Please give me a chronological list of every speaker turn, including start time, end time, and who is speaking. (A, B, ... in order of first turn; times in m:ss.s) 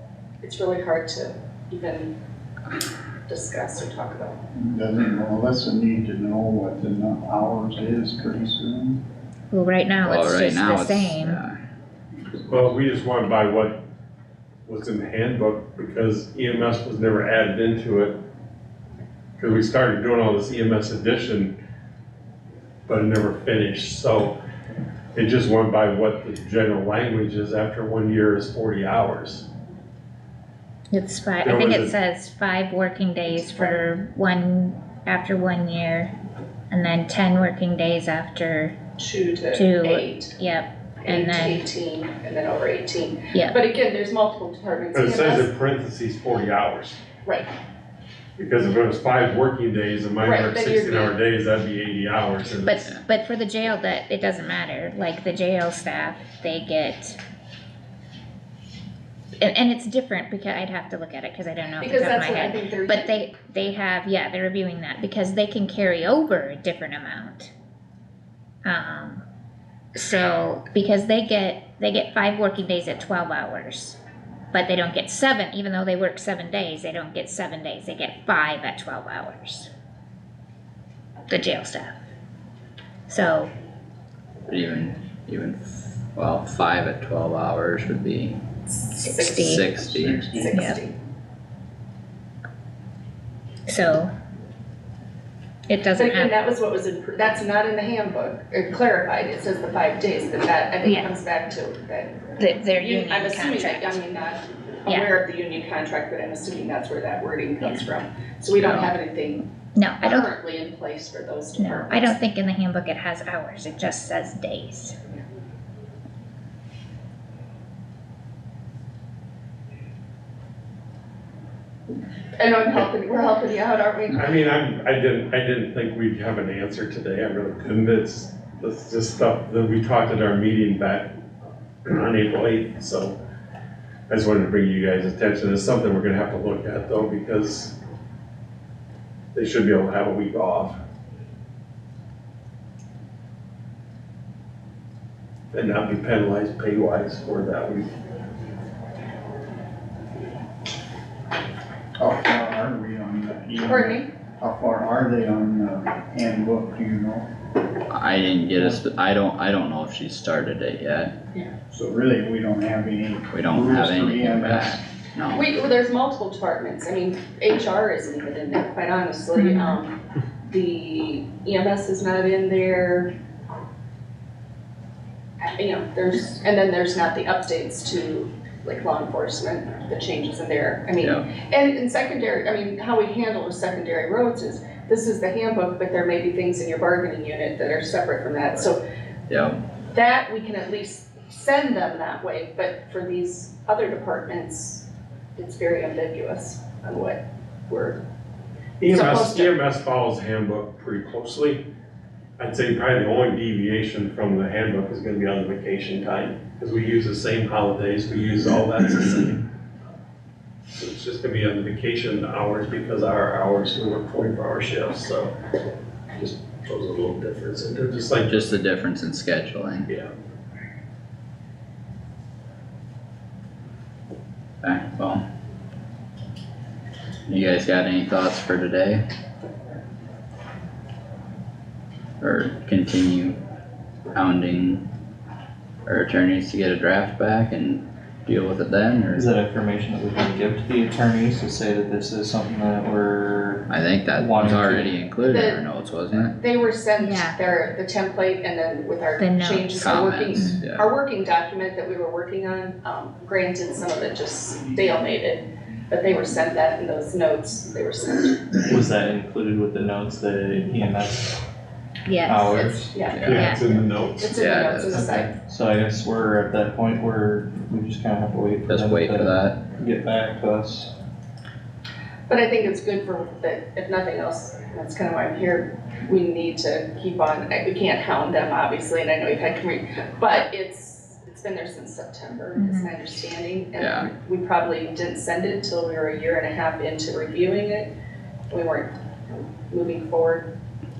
0:00.4-0:02.1 A
0:03.3-0:04.4 A
0:04.5-0:09.0 B
0:09.5-0:11.4 C
0:10.0-0:11.6 D
0:12.5-0:13.8 E
0:14.7-0:18.2 E
0:19.4-0:21.6 E
0:22.9-0:24.4 E
0:25.2-0:29.5 E
0:30.9-0:36.1 C
0:31.4-0:32.0 E
0:33.3-0:33.8 A
0:36.7-0:38.8 C
0:39.0-0:40.3 A
0:39.5-0:41.6 C
0:41.0-0:45.5 A
0:44.9-0:47.0 E
0:47.2-0:47.5 A
0:48.4-0:52.8 E
0:50.2-0:51.2 A
0:52.6-0:57.2 C
0:59.4-1:07.5 C
1:01.8-1:03.3 A
1:08.6-1:09.2 C
1:10.0-1:14.0 C
1:14.5-1:19.7 C
1:21.3-1:21.9 C
1:23.1-1:23.5 C
1:24.5-1:28.4 D
1:28.7-1:30.9 A
1:28.9-1:29.7 C
1:29.2-1:30.3 D
1:30.0-1:30.7 B
1:30.5-1:30.8 C
1:33.7-1:34.1 C
1:35.7-1:36.4 C
1:36.0-1:49.5 A
1:40.8-1:41.1 C
1:42.4-1:44.0 C
1:48.5-1:49.0 D
1:49.8-1:50.3 C
1:50.0-1:52.2 A
1:51.6-1:55.0 C
2:02.4-2:04.3 A
2:04.1-2:11.1 E
2:11.8-2:13.2 E
2:14.1-2:17.8 E
2:19.4-2:20.8 E
2:25.5-2:27.9 E
2:32.0-2:37.3 B
2:33.6-2:34.1 A
2:37.9-2:41.2 D
2:41.7-2:44.8 B
2:43.3-2:45.5 D
2:45.3-2:53.1 A
2:49.4-2:49.8 C
2:55.4-3:08.8 A
3:01.0-3:01.3 D
3:09.3-3:09.6 D
3:09.9-3:18.0 A
3:18.8-3:21.7 E
3:18.9-3:19.5 A
3:22.4-3:29.4 E
3:30.8-3:35.4 E
3:36.1-3:38.6 E
3:38.2-3:39.9 D
3:44.6-3:45.2 D
3:47.3-3:49.0 D
3:52.2-3:53.4 D
3:54.1-3:54.8 D
3:55.9-3:59.3 D
3:59.2-4:03.6 F
4:03.7-4:06.4 D
4:04.2-4:04.9 F
4:05.2-4:05.6 A
4:06.3-4:18.6 A
4:07.0-4:07.4 C
4:09.2-4:09.7 C
4:09.7-4:10.9 D
4:18.7-4:21.4 F
4:22.1-4:23.6 C
4:22.3-4:23.0 F
4:22.5-4:25.3 A
4:23.1-4:23.4 D
4:23.2-4:24.3 E
4:24.3-4:25.0 D
4:24.9-4:30.9 F
4:28.6-4:29.7 D
4:32.3-4:47.9 A
4:42.6-4:43.0 C
4:43.8-4:44.1 D
4:48.5-4:50.5 A